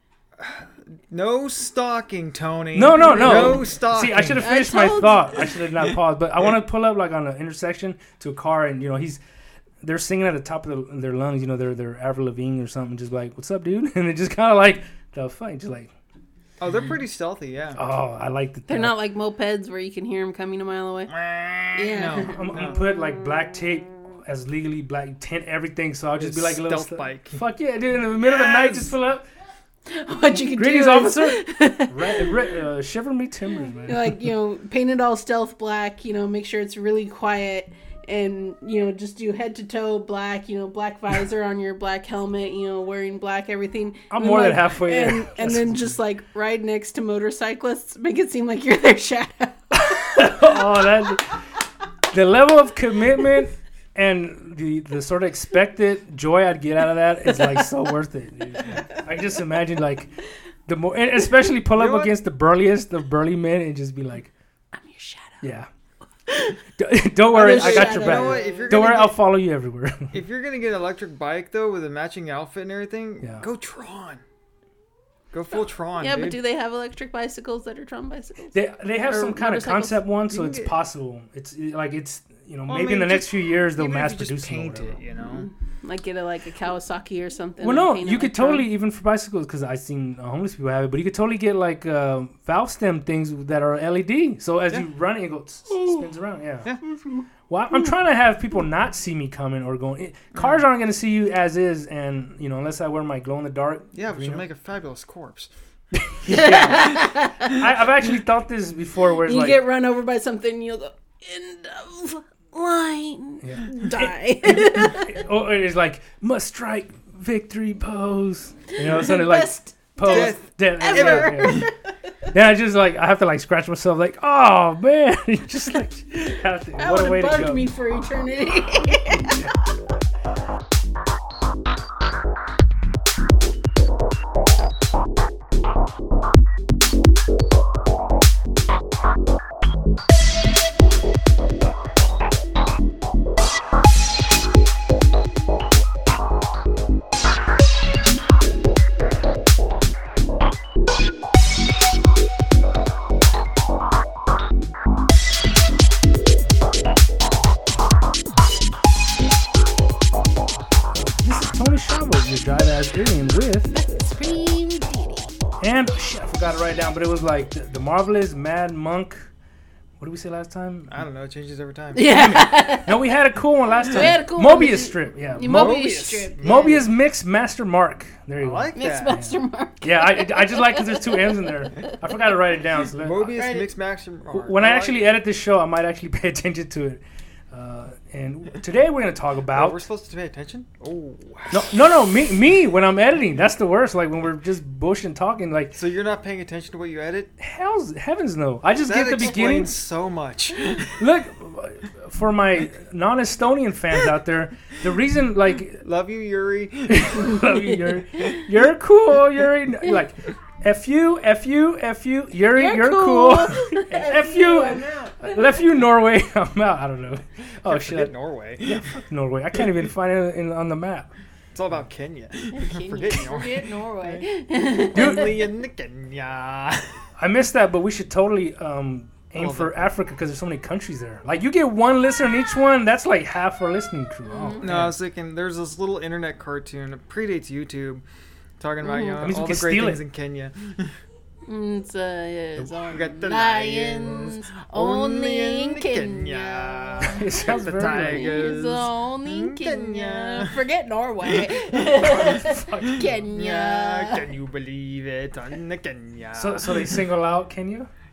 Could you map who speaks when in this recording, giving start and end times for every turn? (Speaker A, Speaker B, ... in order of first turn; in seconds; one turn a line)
Speaker A: 0.4-4.5
Speaker B: 2.7-9.2
Speaker C: 3.0-3.7
Speaker C: 4.4-5.6
Speaker B: 9.8-15.9
Speaker A: 16.6-17.8
Speaker B: 17.8-18.9
Speaker C: 18.7-21.1
Speaker A: 21.1-22.8
Speaker C: 21.8-22.6
Speaker B: 22.3-29.2
Speaker A: 26.2-27.4
Speaker A: 28.2-28.9
Speaker C: 29.9-32.6
Speaker B: 30.4-34.3
Speaker C: 33.8-50.5
Speaker B: 44.1-46.0
Speaker B: 49.7-51.4
Speaker B: 52.1-60.1
Speaker C: 57.3-57.7
Speaker C: 58.6-59.0
Speaker B: 60.7-64.3
Speaker A: 61.7-62.1
Speaker C: 64.7-65.4
Speaker B: 65.4-65.7
Speaker C: 66.3-66.6
Speaker B: 66.8-70.1
Speaker C: 67.3-68.8
Speaker A: 67.4-69.2
Speaker A: 70.1-74.2
Speaker A: 75.3-76.4
Speaker C: 76.0-80.0
Speaker B: 78.5-85.0
Speaker A: 80.3-80.8
Speaker A: 82.7-85.5
Speaker C: 85.2-88.7
Speaker B: 87.6-96.7
Speaker B: 97.5-104.4
Speaker A: 100.3-100.6
Speaker A: 103.9-105.5
Speaker B: 105.9-109.6
Speaker C: 106.3-107.7
Speaker C: 109.2-115.2
Speaker B: 113.4-121.7
Speaker C: 118.7-121.7
Speaker A: 120.0-121.7
Speaker B: 122.3-127.7
Speaker C: 126.8-129.5
Speaker B: 161.2-163.7
Speaker C: 163.7-165.3
Speaker B: 165.6-169.3
Speaker B: 170.0-171.1
Speaker A: 170.9-172.1
Speaker C: 171.9-173.2
Speaker B: 172.0-183.3
Speaker C: 173.8-176.7
Speaker A: 175.5-176.9
Speaker A: 178.4-179.2
Speaker C: 178.8-182.1
Speaker A: 183.0-185.1
Speaker C: 183.4-183.7
Speaker B: 184.3-189.8
Speaker A: 189.5-191.8
Speaker B: 191.5-195.8
Speaker A: 195.7-197.3
Speaker B: 197.4-199.7
Speaker A: 198.8-201.0
Speaker B: 201.0-205.8
Speaker A: 205.8-207.5
Speaker B: 206.9-218.1
Speaker C: 207.4-208.4
Speaker C: 212.5-215.7
Speaker A: 217.7-219.0
Speaker B: 218.6-221.1
Speaker A: 221.6-224.3
Speaker C: 222.5-225.3
Speaker A: 224.8-227.0
Speaker B: 224.9-225.4
Speaker B: 227.2-234.9
Speaker A: 229.4-229.9
Speaker C: 234.3-234.7
Speaker A: 234.6-238.0
Speaker A: 238.6-240.9
Speaker C: 238.8-239.2
Speaker B: 239.2-240.0
Speaker C: 241.5-254.3
Speaker A: 242.9-250.6
Speaker B: 247.0-248.4
Speaker A: 251.3-252.2
Speaker B: 252.0-253.2
Speaker A: 252.9-257.0
Speaker B: 256.4-257.9